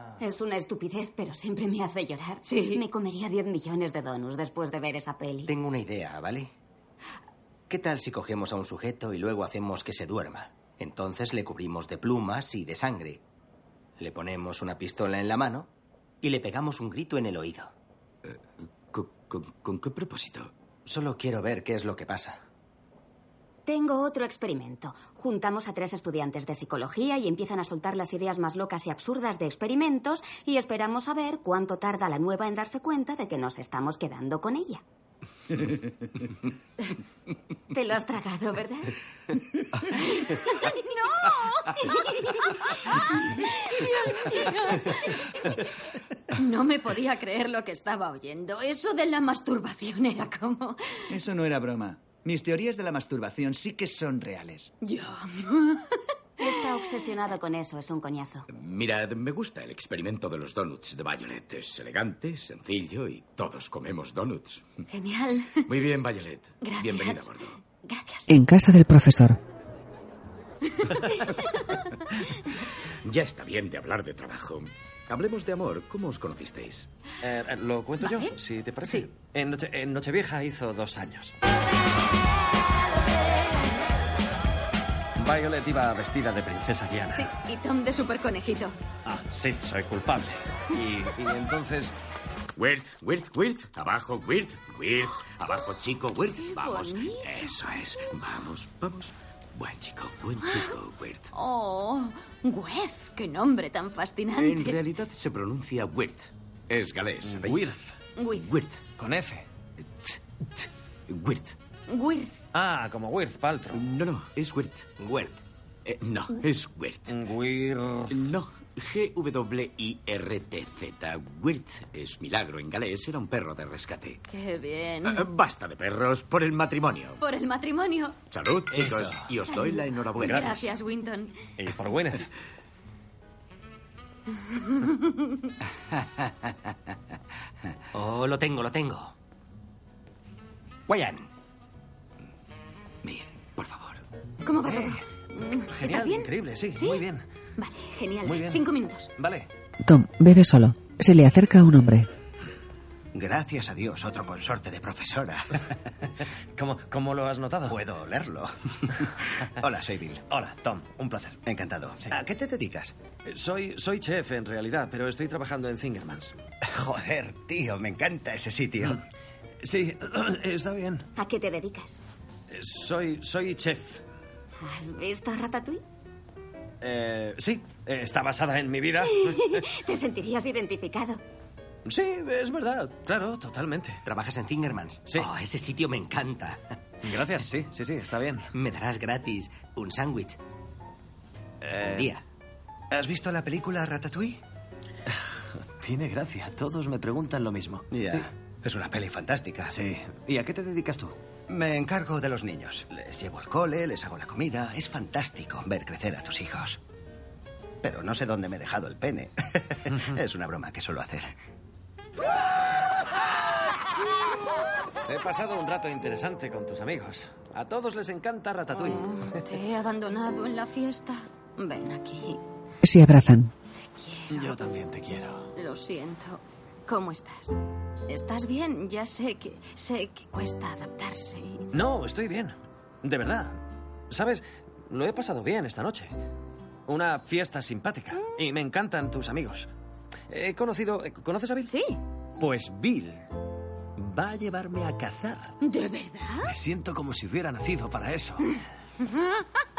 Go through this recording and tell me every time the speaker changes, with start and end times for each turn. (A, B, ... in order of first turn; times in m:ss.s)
0:00.2-0:05.5 A
0:02.4-0:02.8 B
0:05.5-0:06.4 C
0:07.7-0:08.8 C
0:10.6-0:10.9 C
0:14.0-0:15.6 D
0:16.2-0:17.7 D
0:18.2-0:20.5 C
0:23.6-0:34.8 A
0:37.7-0:38.9 A
0:42.8-0:45.0 B
0:46.3-0:51.0 B
0:51.1-0:54.7 E
0:54.8-0:55.9 B
0:56.4-0:58.4 A
0:58.5-1:04.7 C
1:04.9-1:05.6 B
1:05.7-1:07.6 C
1:06.6-1:07.3 B
1:07.8-1:08.3 B
1:08.3-1:09.4 F
1:13.0-1:16.9 C
1:17.2-1:21.3 G
1:18.0-1:18.3 B
1:25.2-1:27.3 G
1:27.1-1:28.8 B
1:29.0-1:32.0 G
1:32.6-1:41.3 C
1:36.4-1:37.5 B
1:41.3-1:44.8 B
1:44.4-1:47.7 C
1:47.2-1:47.9 G
1:48.2-1:48.5 B
1:48.3-1:48.8 C
1:49.0-1:49.4 G
1:50.0-1:51.6 C
1:51.9-1:52.4 B
1:52.5-1:53.8 G
1:53.7-1:57.1 C
1:57.1-1:58.2 G
1:58.1-2:04.2 C
2:04.3-2:05.2 B
2:05.0-2:07.2 C
2:07.2-2:08.2 B
2:08.3-2:10.6 C
2:08.7-2:09.1 G
2:10.2-2:10.6 G
2:10.2-2:11.4 B
2:11.6-2:12.3 G
2:14.5-2:15.1 B
2:17.9-2:19.1 D
2:20.9-2:21.2 D
2:23.0-2:24.0 C
2:24.4-2:27.0 B
2:24.6-2:25.0 G
2:25.7-2:27.2 G
2:27.6-2:29.1 B
2:28.2-2:28.6 G
2:29.2-2:29.5 G
2:29.8-2:32.1 F
2:33.1-2:35.6 H
2:36.6-2:37.8 G
2:37.7-2:38.5 H
2:39.6-2:40.2 H
2:40.3-2:41.4 G
2:41.4-2:42.9 H
2:43.2-2:46.4 G
2:46.6-2:49.0 H
2:49.6-2:51.1 G
2:51.2-2:52.0 A
2:52.5-2:54.0 G
2:54.6-2:55.8 A
2:56.8-2:59.6 G
2:59.2-3:01.2 A
3:01.8-3:04.0 G
3:04.1-3:06.6 D
3:07.0-3:08.5 G
3:08.5-3:10.4 D
3:11.6-3:12.1 G
3:11.8-3:12.2 D
3:12.9-3:14.4 H
3:15.8-3:18.2 G
3:17.9-3:19.7 H
3:19.7-3:21.2 G
3:21.5-3:26.8 H
3:27.8-3:31.3 H
3:35.0-3:39.2 G
3:38.7-3:42.4 B
3:42.8-3:43.5 F
3:43.8-3:44.6 B
3:44.3-3:45.5 G
3:45.5-3:47.6 B
3:48.1-3:51.7 B
3:51.7-3:53.6 G
3:54.1-3:56.1 G
3:56.9-3:59.7 G
4:00.3-4:01.7 G
4:01.7-4:02.0 B
4:02.4-4:03.2 G
4:04.0-4:05.5 G
4:05.6-4:06.5 B
4:06.4-4:08.6 G
4:09.1-4:09.4 B